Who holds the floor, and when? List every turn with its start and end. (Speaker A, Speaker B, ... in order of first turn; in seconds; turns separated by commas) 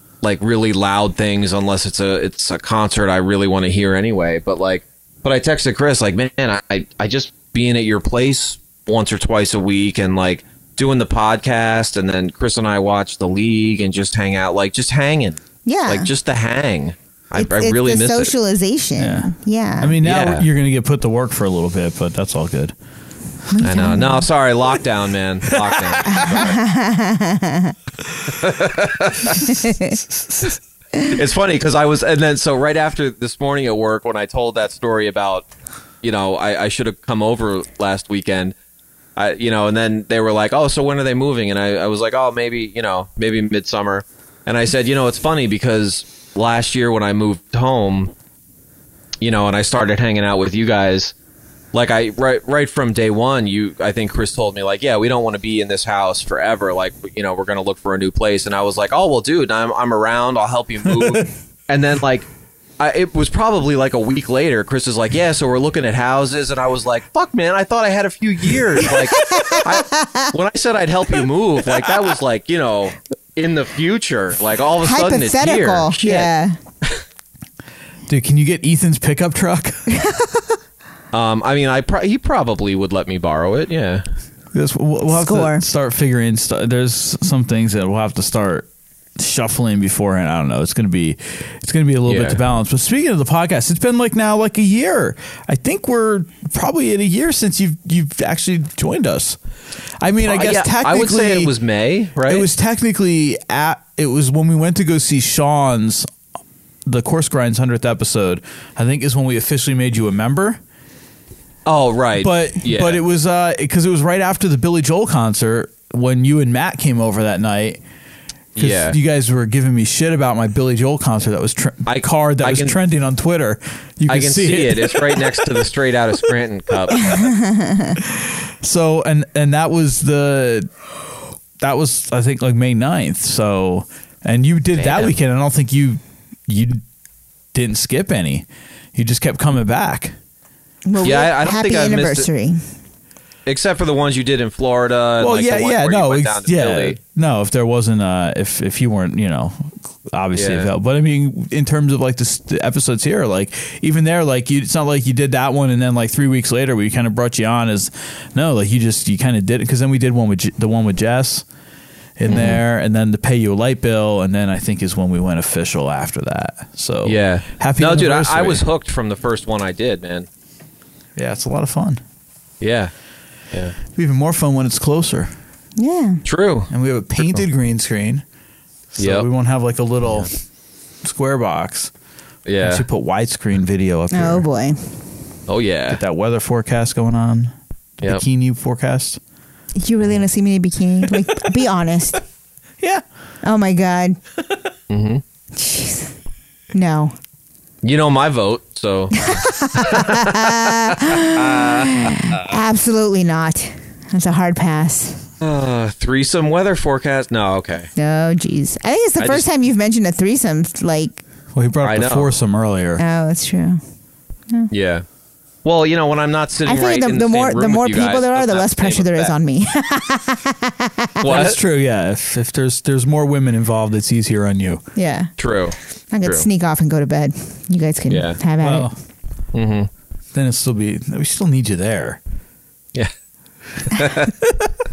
Speaker A: 0.2-18.3, Speaker B: 15.7-16.1, Speaker B: 17.4-20.0, Speaker C: 19.0-22.7, Speaker A: 20.0-20.4, Speaker B: 23.5-24.3, Speaker A: 23.6-26.6, Speaker C: 25.5-26.0, Speaker B: 26.1-27.8, Speaker A: 28.3-29.4, Speaker B: 29.4-30.0, Speaker C: 30.2-30.5, Speaker A: 31.1-35.5, Speaker A: 36.0-38.5, Speaker A: 39.2-48.1, Speaker A: 49.2-51.1, Speaker A: 51.7-62.3, Speaker A: 62.8-76.3, Speaker B: 68.9-70.3, Speaker B: 74.8-76.6, Speaker C: 78.1-80.0, Speaker B: 79.9-80.4, Speaker A: 81.1-84.0, Speaker C: 84.5-99.4, Speaker B: 85.1-85.7, Speaker A: 92.1-92.4, Speaker C: 100.0-101.5, Speaker A: 100.2-102.5, Speaker C: 102.3-106.1, Speaker C: 106.9-110.6, Speaker A: 111.7-113.0, Speaker C: 112.2-117.8, Speaker A: 118.6-119.0, Speaker C: 118.6-125.5, Speaker A: 121.9-122.8, Speaker A: 124.1-127.3, Speaker B: 127.1-128.0, Speaker C: 128.0-130.7, Speaker C: 131.6-136.8, Speaker A: 134.8-135.1, Speaker C: 137.5-140.2, Speaker B: 140.8-142.6, Speaker A: 141.0-142.3, Speaker A: 143.5-147.0, Speaker C: 145.2-161.5, Speaker A: 150.3-150.7, Speaker C: 162.2-168.6, Speaker A: 162.3-162.6, Speaker A: 167.1-170.3, Speaker C: 171.2-172.0, Speaker A: 172.6-172.9, Speaker C: 173.9-175.3, Speaker B: 175.8-176.2, Speaker A: 176.2-176.7, Speaker C: 176.7-178.2, Speaker C: 178.9-180.3, Speaker A: 179.0-179.3, Speaker C: 181.0-181.9, Speaker A: 182.5-182.8, Speaker C: 182.6-184.5, Speaker B: 184.1-184.9, Speaker A: 185.5-186.0, Speaker C: 185.9-189.2, Speaker B: 189.8-192.2, Speaker B: 193.4-194.2, Speaker A: 194.9-195.2, Speaker B: 195.5-196.1, Speaker B: 196.7-197.2, Speaker A: 197.8-202.5, Speaker B: 199.2-205.3, Speaker A: 205.4-207.9, Speaker B: 208.0-211.2, Speaker A: 209.2-209.5, Speaker C: 211.5-213.0, Speaker A: 211.8-212.3, Speaker B: 213.0-213.8, Speaker A: 214.7-215.1, Speaker A: 215.7-219.3, Speaker B: 216.7-221.2, Speaker A: 221.2-221.6, Speaker C: 221.2-224.8, Speaker B: 225.0-225.3, Speaker A: 225.4-226.5, Speaker B: 226.1-228.9, Speaker A: 228.1-228.4, Speaker C: 228.6-228.9, Speaker A: 229.5-229.9, Speaker C: 230.3-232.2, Speaker A: 233.9-234.3